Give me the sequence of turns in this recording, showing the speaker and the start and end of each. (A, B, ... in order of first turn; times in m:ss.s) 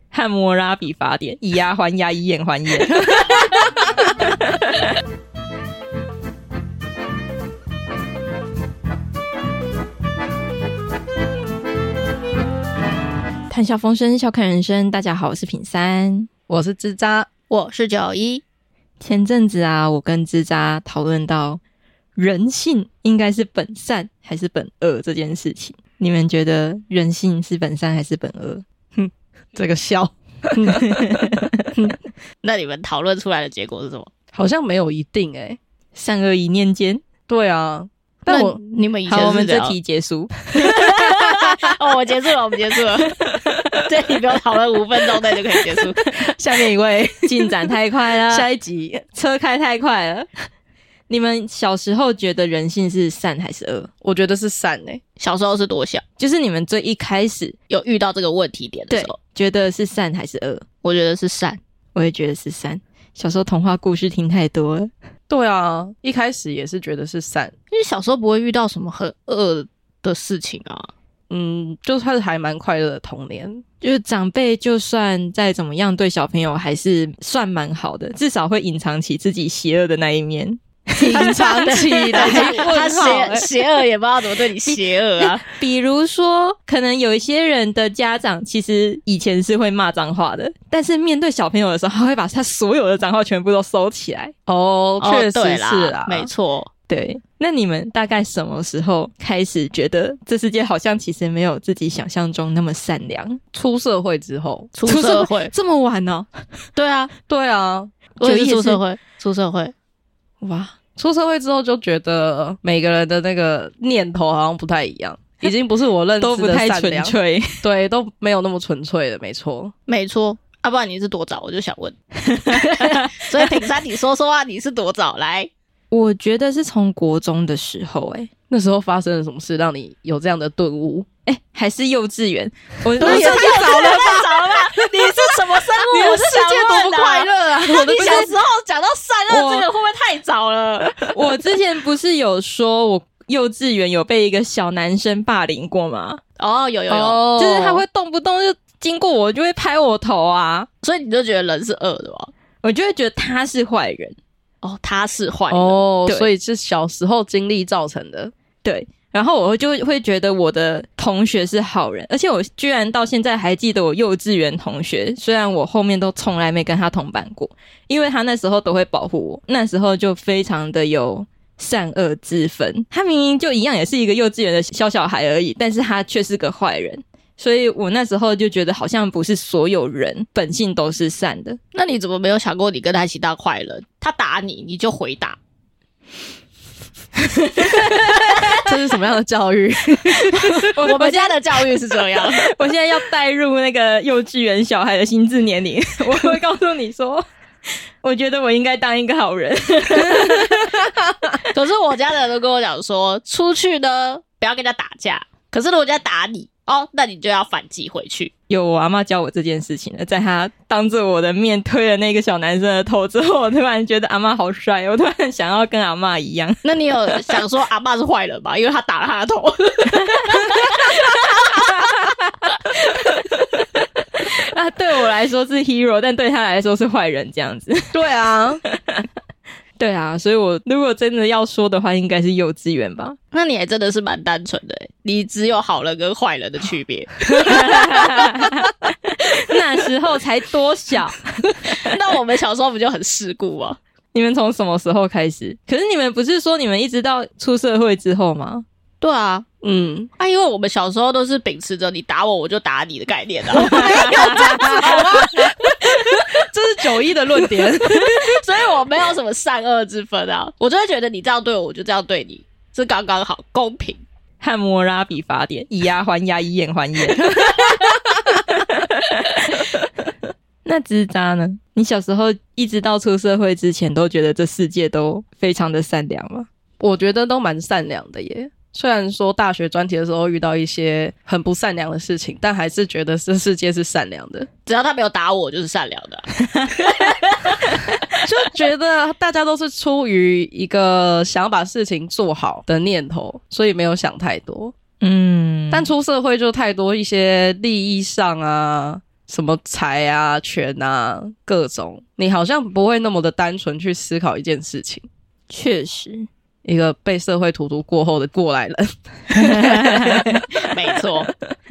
0:00.1-0:04.9 A
0:13.5-0:16.3 A
0:16.5-0:17.3 B
0:17.5-0:18.4 C
0:19.0-0:21.6 A
0:22.2-0:28.6 A
0:28.9-0:31.9 B
0:30.9-0:31.5 A
0:32.4-0:34.1 C
0:34.3-0:35.6 B
0:35.9-0:37.0 A
0:37.3-0:38.6 B
0:38.2-0:39.8 C
0:39.1-0:41.6 A
0:40.7-0:43.2 C
0:43.2-0:43.7 A
0:43.8-0:46.0 C
0:46.2-0:47.6 B
0:47.2-0:48.5 A
0:48.3-0:49.0 B
0:49.1-0:50.3 A
0:51.1-0:53.9 A
0:54.0-0:55.0 B
0:55.2-0:56.0 C
0:56.2-0:57.5 A
0:57.7-0:59.1 C
0:58.9-1:00.6 A
1:00.8-1:01.6 C
1:01.9-1:04.9 A
1:05.3-1:07.5 B
1:07.7-1:10.9 C
1:11.3-1:13.6 B
1:13.8-1:23.4 A
1:21.0-1:23.5 B
1:21.2-1:25.4 C
1:25.2-1:34.3 A
1:34.5-1:36.3 B
1:35.0-1:36.7 C
1:36.9-1:43.4 A
1:43.5-1:44.8 B
1:44.8-1:45.5 C
1:44.8-1:46.3 A
1:46.8-1:47.1 C
1:47.3-1:47.9 B
1:48.2-1:49.7 C
1:48.2-1:48.8 A
1:50.4-1:50.8 A
1:50.9-1:59.7 B
1:56.2-1:57.6 A
1:59.9-2:05.5 C
2:02.4-2:02.9 A
2:05.9-2:08.3 A
2:08.5-2:11.1 B
2:11.3-2:13.7 A
2:13.0-2:15.1 B
2:13.0-2:21.2 C
2:15.8-2:18.3 B
2:18.0-2:18.3 A
2:19.3-2:19.7 A
2:21.1-2:26.2 A
2:26.4-2:27.3 C
2:26.9-2:30.7 A
2:27.0-2:27.8 B
2:30.8-2:32.3 C
2:32.6-2:34.2 A
2:34.6-2:35.9 C
2:35.5-2:38.3 B
2:38.6-3:01.6 A
3:01.7-3:05.4 C
3:07.4-3:08.6 A
3:07.6-3:08.6 C
3:08.6-3:10.7 B
3:10.2-3:11.4 A
3:10.7-3:12.5 C
3:12.2-3:17.2 A
3:18.0-3:20.8 A
3:21.5-3:28.3 C
3:28.5-3:36.6 A
3:36.6-3:41.9 C
3:40.4-3:40.8 A
3:44.2-3:48.0 A
3:47.9-3:48.6 B
3:48.7-3:49.0 A
3:49.8-3:53.2 A
3:53.3-3:58.2 C
3:57.3-4:01.5 A
4:01.7-4:03.8 C
4:04.1-4:08.6 A
4:09.0-4:09.4 C
4:09.6-4:10.1 B
4:10.2-4:16.3 C
4:13.6-4:15.2 A
4:13.7-4:18.4 B
4:18.0-4:24.0 C
4:24.4-4:29.9 A
4:30.6-4:36.5 A
4:36.8-4:44.5 B
4:44.6-4:47.3 C
4:48.2-4:54.7 B
4:55.0-4:55.9 A
4:55.7-5:05.0 B
5:05.5-5:06.3 A
5:06.6-5:10.3 B
5:09.3-5:10.4 A
5:10.7-5:11.3 C